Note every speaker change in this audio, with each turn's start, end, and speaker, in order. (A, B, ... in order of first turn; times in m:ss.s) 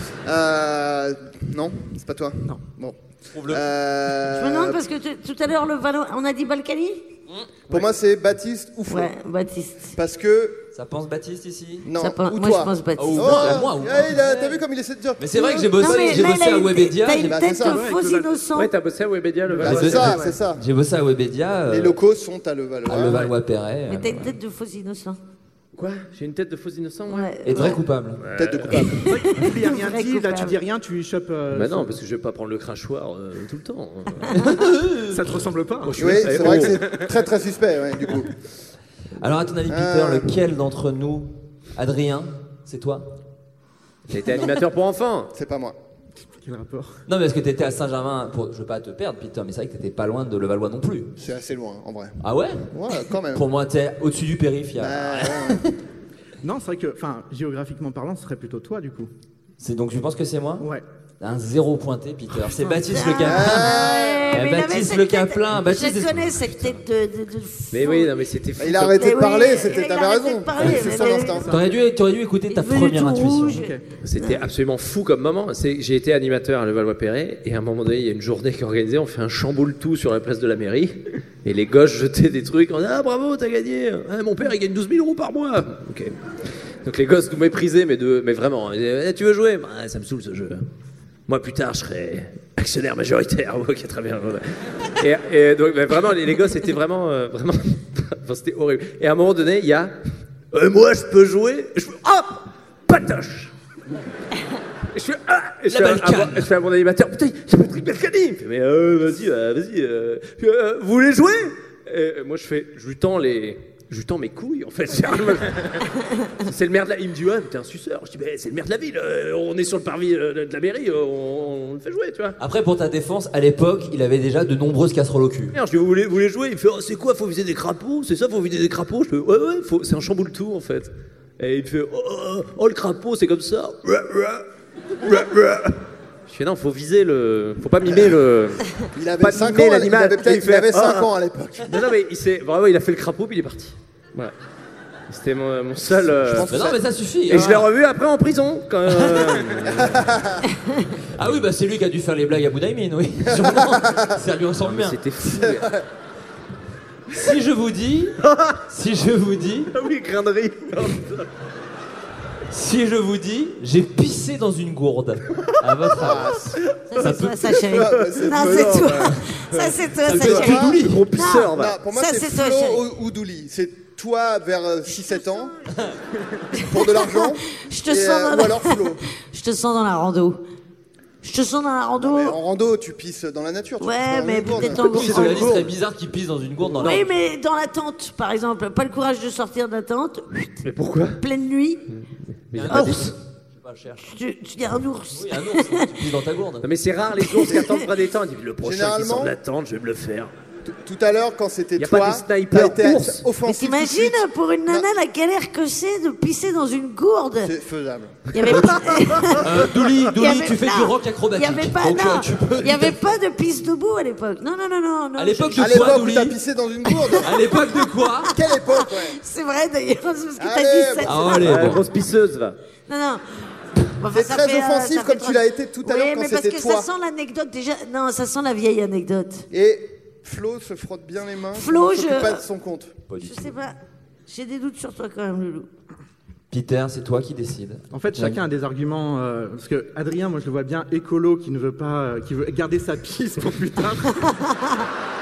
0:00.2-0:04.8 A
0:03.3-0:03.6 B
0:04.3-0:07.0 C
0:07.3-0:07.5 B
0:07.7-0:09.1 A
0:08.9-0:10.0 C
0:09.9-0:10.6 A
0:10.7-0:11.9 B
0:11.8-0:16.0 A
0:12.0-0:13.6 C
0:13.0-0:14.6 B
0:15.2-0:17.4 B
0:15.4-0:18.7 C
0:17.2-0:17.9 A
0:17.6-0:18.4 D
0:18.5-0:20.1 E
0:19.5-0:20.4 D
0:19.6-0:20.6 A
0:19.6-0:22.0 B
0:21.7-0:23.3 A
0:22.8-0:24.4 B
0:23.9-0:25.2 C
0:25.7-0:27.6 E
0:27.1-0:27.8 C
0:27.4-0:28.2 B
0:28.2-0:29.0 E
0:28.3-0:29.1 A
0:28.8-0:30.6 C
0:29.1-0:31.9 D
0:31.5-0:34.4 E
0:34.3-0:35.4 B
0:35.1-0:36.3 D
0:35.8-0:37.1 E
0:36.0-0:38.3 A
0:39.2-0:43.2 B
0:39.6-0:40.4 A
0:44.1-0:45.3 E
0:45.3-0:45.8 A
0:46.4-0:47.0 D
0:47.1-0:51.1 B
0:51.2-0:52.2 A
0:52.2-0:52.7 B
0:52.7-0:53.5 A
0:53.3-0:55.7 B
0:54.8-0:55.7 A
0:56.4-0:59.1 D
0:59.6-1:00.7 B
1:00.6-1:00.8 D
1:01.2-1:06.8 B
1:02.8-1:08.1 C
1:03.2-1:04.3 A
1:07.7-1:09.0 E
1:08.6-1:11.4 A
1:08.9-1:11.6 C
1:10.6-1:11.6 D
1:11.5-1:13.7 B
1:12.5-1:14.4 C
1:13.5-1:13.8 D
1:14.0-1:26.2 E
1:26.8-1:30.6 E
1:31.3-1:34.5 E
1:35.0-1:39.9 E
1:40.5-1:43.5 E
1:44.9-1:55.9 E
1:45.7-1:46.5 B
1:56.4-2:02.4 E
2:02.4-2:05.6 B
2:05.5-2:14.5 E
2:15.0-2:18.6 E
2:17.9-2:18.1 A
2:18.9-2:21.9 A
2:19.2-2:21.1 E
2:21.6-2:24.3 E
2:25.1-2:26.5 E
2:26.0-2:26.8 A
2:26.4-2:27.7 B
2:27.3-2:30.0 E
2:28.9-2:29.7 B
2:29.8-2:30.4 A
2:31.1-2:35.0 B
2:33.3-2:34.1 A
2:34.6-2:35.7 E
2:35.2-2:35.8 A
2:37.1-2:39.7 B
2:38.2-2:38.6 E
2:39.7-2:41.3 E
2:42.5-2:47.6 B
2:46.0-2:46.6 A
2:46.9-2:52.8 C
2:47.6-2:49.2 A
2:47.9-2:49.0 E
2:49.5-2:51.8 E
2:50.0-2:51.1 B
2:50.2-2:50.8 A
2:51.5-2:55.5 A
2:55.0-2:55.6 C
2:56.5-2:59.0 A
2:56.5-3:00.4 C
3:01.2-3:02.4 C
3:02.0-3:04.8 A
3:03.8-3:05.6 C
3:04.6-3:07.1 B
3:04.8-3:05.7 E
3:06.8-3:10.6 C
3:10.6-3:11.2 E
3:11.2-3:11.8 C
3:12.5-3:13.1 E
3:12.5-3:14.2 B
3:12.7-3:13.1 C
3:14.0-3:15.9 C
3:15.1-3:16.7 B
3:16.6-3:20.3 E
3:17.2-3:17.7 C
3:18.6-3:19.3 A
3:20.6-3:24.9 A
3:21.8-3:23.2 E
3:23.4-3:27.5 C
3:27.4-3:28.4 A
3:28.3-3:29.6 C
3:28.5-3:28.7 B
3:29.4-3:33.0 B
3:30.1-3:36.0 C
3:35.2-3:36.4 B
3:35.6-3:37.5 A
3:36.9-3:37.2 C
3:37.2-3:38.3 B
3:38.0-3:41.4 C
3:38.3-3:39.2 A
3:40.4-3:41.3 A
3:41.0-3:41.9 B
3:41.4-3:42.6 E
3:42.9-3:43.4 C
3:44.0-3:49.4 C
3:44.1-3:46.9 A
3:49.5-3:53.0 A
3:51.5-3:52.4 C
3:53.1-3:53.5 B
3:53.2-3:53.8 C
3:54.3-3:55.7 C
3:56.5-3:58.4 B
3:57.9-4:04.2 D
4:04.2-4:04.5 C